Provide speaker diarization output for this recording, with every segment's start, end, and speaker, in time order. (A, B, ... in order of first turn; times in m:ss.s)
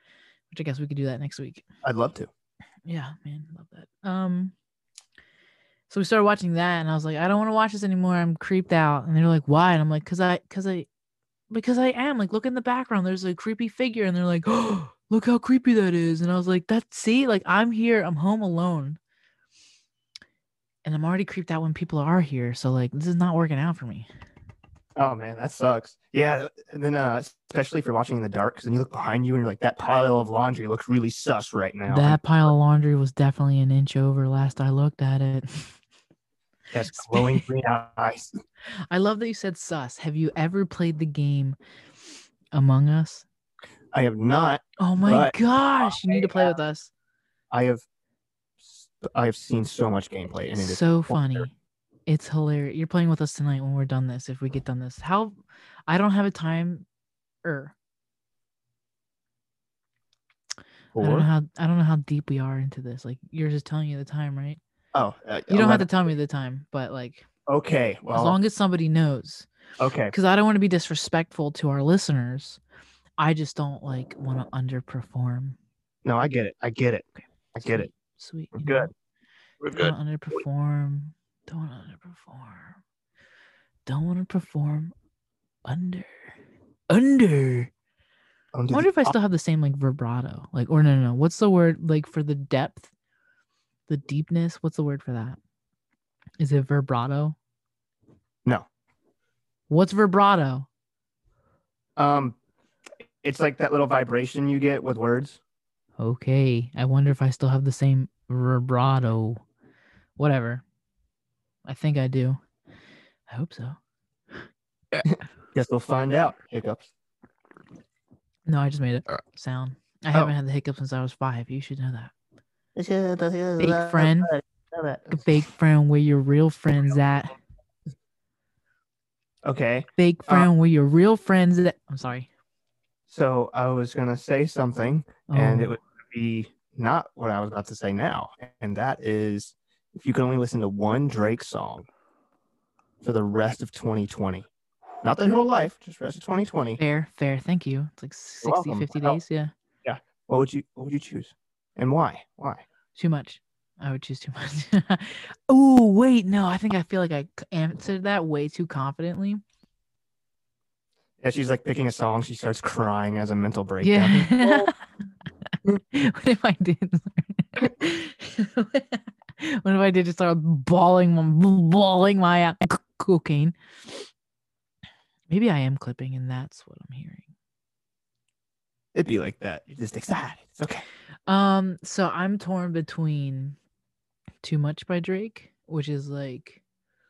0:00.5-0:01.6 A
0:01.8-0:02.3 B
0:02.9-0:04.5 A
0:05.9-0:10.9 A
0:11.5-0:19.0 A
0:20.8-0:24.1 A
0:25.0-0:32.2 B
0:31.9-0:35.8 A
0:36.7-0:38.3 B
0:36.8-0:37.4 A
0:38.9-0:41.6 A
0:42.5-0:43.3 A
0:43.9-0:46.5 B
0:44.8-0:46.9 A
0:47.5-0:47.8 B
0:48.6-0:51.5 B
0:50.5-0:51.5 A
0:52.1-0:55.4 A
0:55.9-0:56.9 A
0:57.4-0:57.7 A
1:00.9-1:01.3 B
1:01.0-1:04.6 A
1:04.9-1:05.9 B
1:05.5-1:07.3 A
1:07.5-1:08.4 B
1:08.1-1:09.5 A
1:09.8-1:10.1 B
1:10.1-1:12.6 A
1:13.2-1:15.6 A
1:16.0-1:17.9 B
1:17.2-1:18.9 A
1:18.6-1:18.9 B
1:19.6-1:19.9 B
1:19.7-1:22.8 A
1:23.9-1:24.9 A
1:25.6-1:26.3 A
1:26.9-1:27.7 A
1:28.5-1:29.1 B
1:28.7-1:32.9 A
1:33.9-1:35.4 A
1:36.4-1:37.4 A
1:39.7-1:40.7 A
1:42.0-1:42.4 B
1:43.2-1:45.4 B
1:46.0-1:49.4 A
1:50.2-1:50.6 A
1:51.6-1:52.4 A
1:53.3-1:53.8 A
1:55.0-1:56.9 B
1:58.5-2:02.1 A
2:02.8-2:05.2 B
2:03.6-2:04.3 A
2:05.1-2:07.4 A
2:09.4-2:10.5 B
2:10.0-2:12.3 A
2:13.1-2:21.9 B
2:15.3-2:15.8 A
2:23.0-2:24.5 B
2:25.0-2:26.8 B
2:26.8-2:29.5 A
2:28.4-2:29.2 B
2:29.8-2:32.6 B
2:33.0-2:39.4 A
2:41.2-2:44.7 B
2:43.8-2:44.8 A
2:45.5-2:54.1 A
2:55.3-2:57.3 A
2:58.9-3:00.8 B
3:01.3-3:03.6 A
3:04.4-3:06.6 A